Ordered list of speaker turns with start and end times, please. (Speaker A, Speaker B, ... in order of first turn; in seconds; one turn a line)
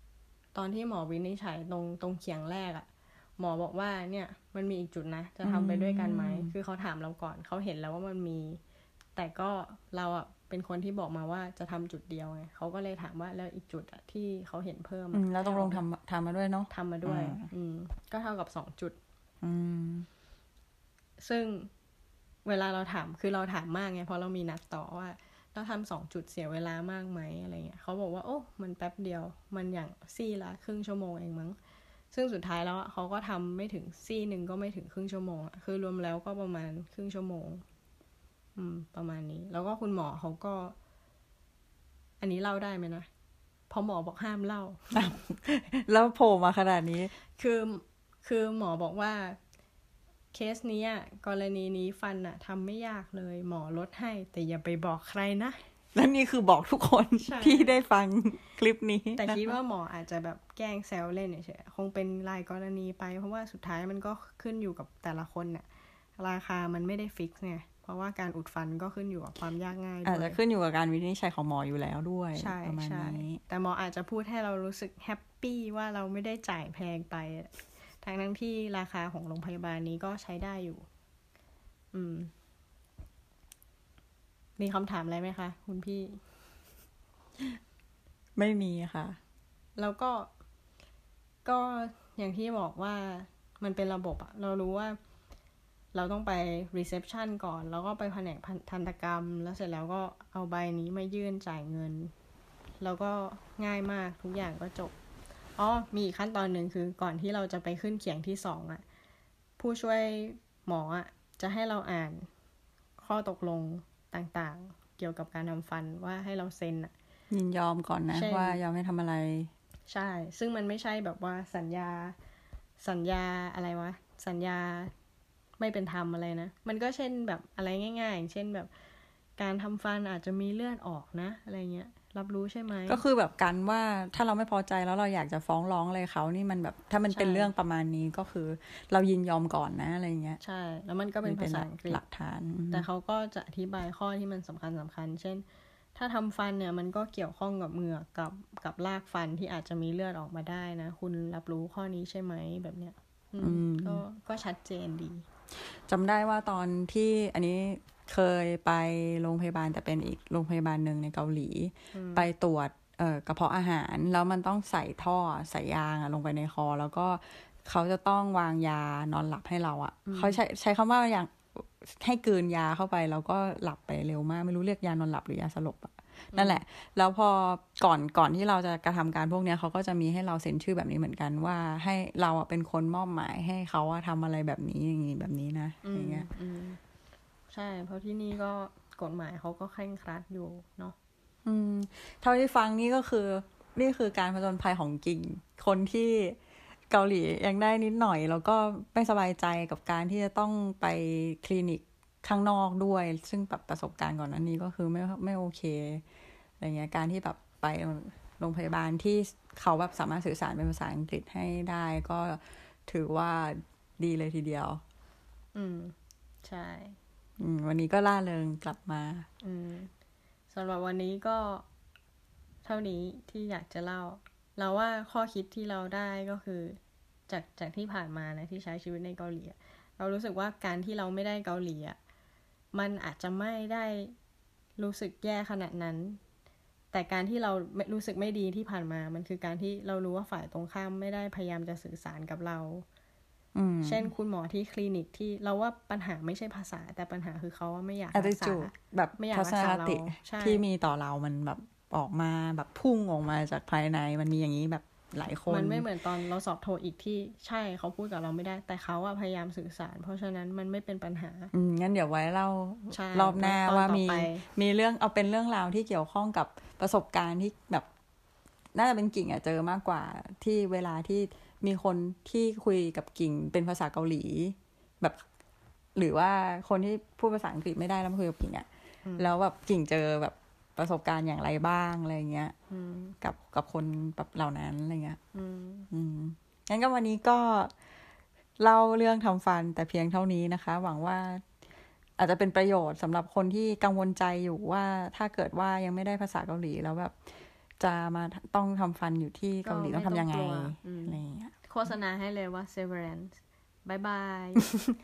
Speaker A: 0.5-2.9
Speaker A: 3.4-8.6
Speaker B: 5.4-6.5
Speaker A: 9.2-15.8
Speaker B: 15.1-17.4
Speaker A: 16.7-19.0
Speaker B: 19.4-20.1
Speaker A: 21.2-21.7
Speaker A: 22.4-31.6
Speaker A: 32.1-37.6
Speaker A: 38.5-40.7
Speaker A: 42.2-43.1
Speaker A: 43.7-44.8
Speaker B: 44.9-47.1
Speaker A: 47.4-49.4
Speaker A: 50.3-55.6
Speaker B: 55.9-59.5
Speaker A: 57.2-57.8
Speaker A: 59.1-65.7
Speaker A: 66.2-70.4
Speaker B: 70.0-73.4
Speaker A: 72.3-80.8
Speaker A: 81.9-82.3
Speaker A: 84.6-86.2
Speaker B: 88.4-89.2
Speaker A: 89.8-90.3
Speaker A: 91.4-95.0
Speaker A: 95.9-102.1
Speaker A: 102.8-104.9
Speaker A: 105.6-108.8
Speaker A: 109.6-112.3
Speaker A: 113.0-116.9
Speaker B: 117.3-119.5
Speaker A: 118.1-118.6
Speaker A: 119.9-122.2
Speaker A: 122.8-124.9
Speaker A: 125.6-128.7
Speaker A: 129.4-133.0
Speaker B: 132.9-140.4
Speaker A: 137.1-137.5
Speaker A: 140.4-142.0
Speaker B: 141.2-142.8
Speaker A: 142.7-155.2
Speaker B: 153.4-154.0
Speaker B: 155.7-186.3
Speaker A: 161.9-162.3
Speaker A: 170.1-170.4
Speaker A: 176.3-176.6
Speaker A: 185.8-186.8
Speaker A: 187.5-190.9
Speaker B: 191.4-196.4
Speaker B: 196.9-206.0
Speaker B: 206.6-214.8
Speaker A: 215.5-217.0
Speaker B: 217.4-219.2
Speaker A: 219.4-219.9
Speaker A: 220.5-221.6
Speaker A: 222.6-232.0
Speaker A: 232.7-234.1
Speaker A: 234.8-236.2
Speaker A: 236.9-242.8
Speaker B: 243.5-244.1
Speaker A: 243.8-250.6
Speaker B: 248.1-255.9
Speaker A: 255.5-261.5
Speaker B: 261.5-267.9
Speaker A: 262.9-264.5
Speaker B: 268.7-275.2
Speaker B: 275.9-278.6
Speaker A: 279.0-279.3
Speaker B: 279.2-282.5
Speaker A: 282.7-283.1
Speaker B: 283.2-285.2
Speaker A: 285.3-285.9
Speaker B: 285.9-287.7
Speaker B: 288.6-291.4
Speaker B: 292.2-297.2
Speaker B: 297.8-301.5
Speaker A: 299.6-304.6